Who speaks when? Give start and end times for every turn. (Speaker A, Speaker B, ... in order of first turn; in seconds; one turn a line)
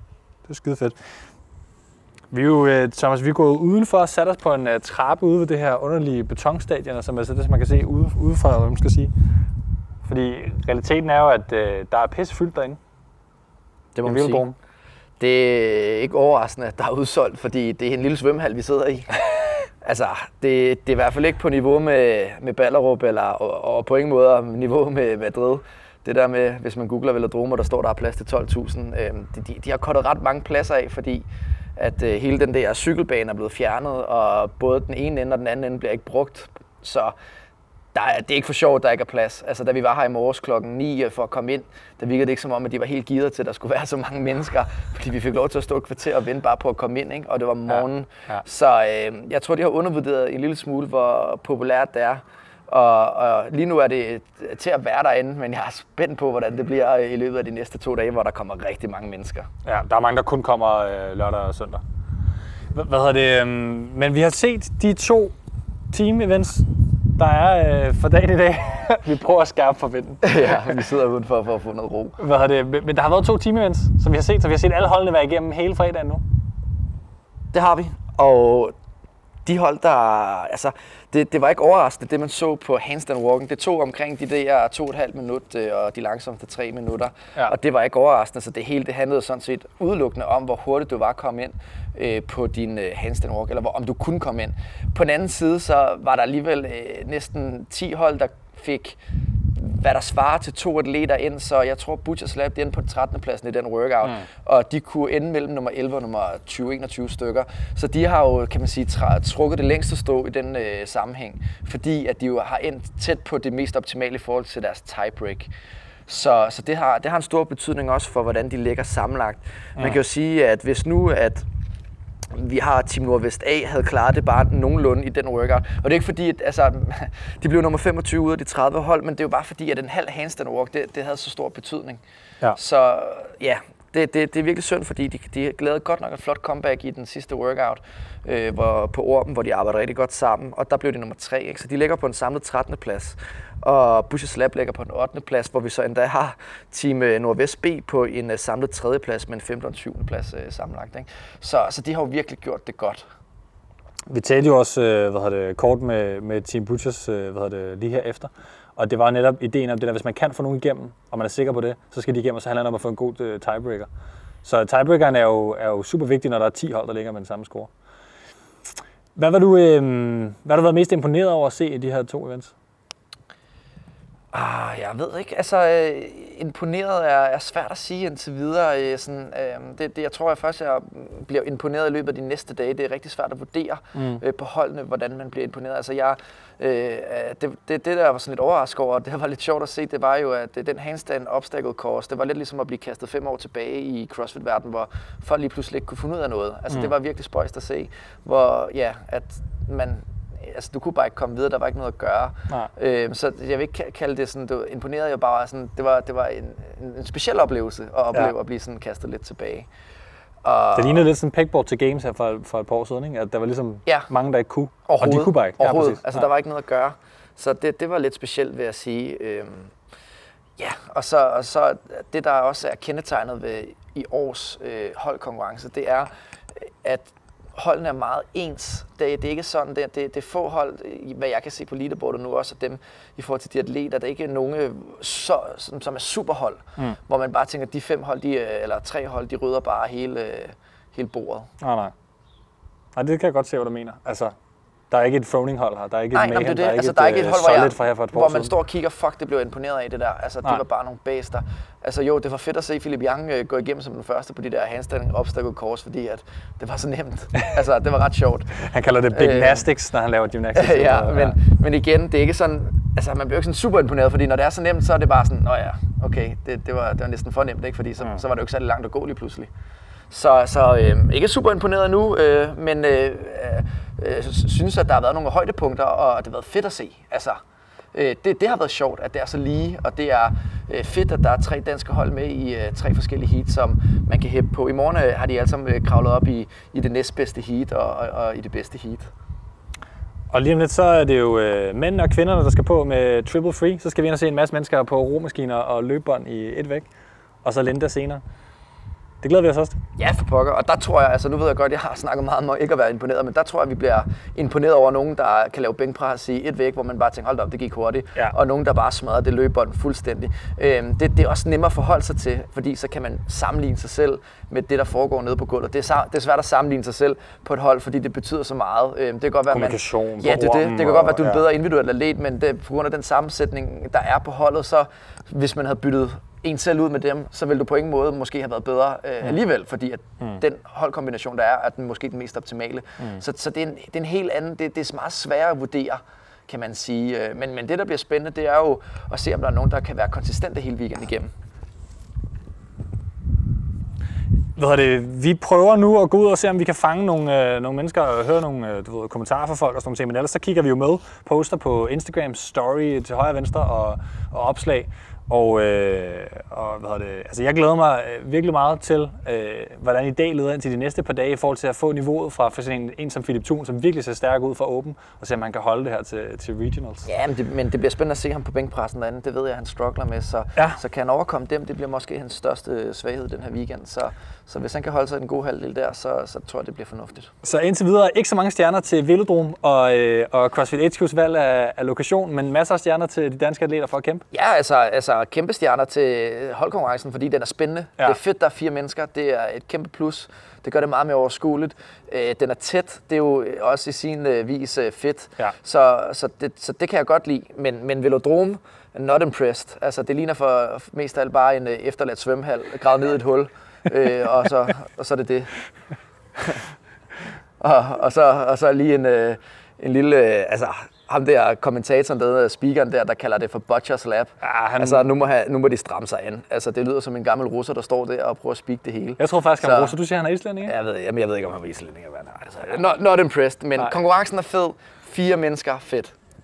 Speaker A: 0.5-1.0
Speaker A: 2.3-9.1
Speaker A: 10.1-12.8
Speaker B: 13.9-14.4
Speaker A: 14.0-14.6
Speaker B: 15.2-37.1
Speaker B: 37.9-59.5
Speaker A: 47.7-48.4
Speaker A: 59.6-61.8
Speaker A: 62.7-65.3
Speaker A: 65.9-70.8
Speaker B: 70.2-72.2
Speaker A: 72.2-76.2
Speaker B: 77.5-78.7
Speaker B: 79.5-99.0
Speaker B: 99.5-115.5
Speaker B: 116.1-121.5
Speaker B: 122.3-132.0
Speaker B: 132.5-153.0
Speaker A: 154.1-163.9
Speaker A: 164.4-167.7
Speaker A: 169.2-172.5
Speaker B: 174.3-209.7
Speaker B: 210.4-211.1
Speaker A: 210.8-216.2
Speaker B: 214.9-219.7
Speaker B: 220.6-226.1
Speaker B: 226.8-241.5
Speaker A: 241.6-241.9
Speaker A: 242.9-244.3
Speaker A: 244.9-248.5
Speaker B: 246.1-259.7
Speaker A: 258.6-261.4
Speaker B: 260.5-269.5
Speaker B: 270.1-277.4
Speaker B: 277.9-289.1
Speaker A: 290.3-296.9
Speaker A: 297.4-298.2
Speaker A: 299.2-299.8
Speaker B: 300.0-341.3
Speaker A: 319.5-321.5
Speaker A: 344.6-367.1
Speaker B: 367.1-377.3
Speaker A: 377.4-384.2
Speaker B: 384.3-405.6
Speaker B: 406.4-406.6
Speaker B: 407.6-420.0
Speaker A: 414.4-415.1
Speaker A: 419.2-420.7
Speaker B: 420.6-426.1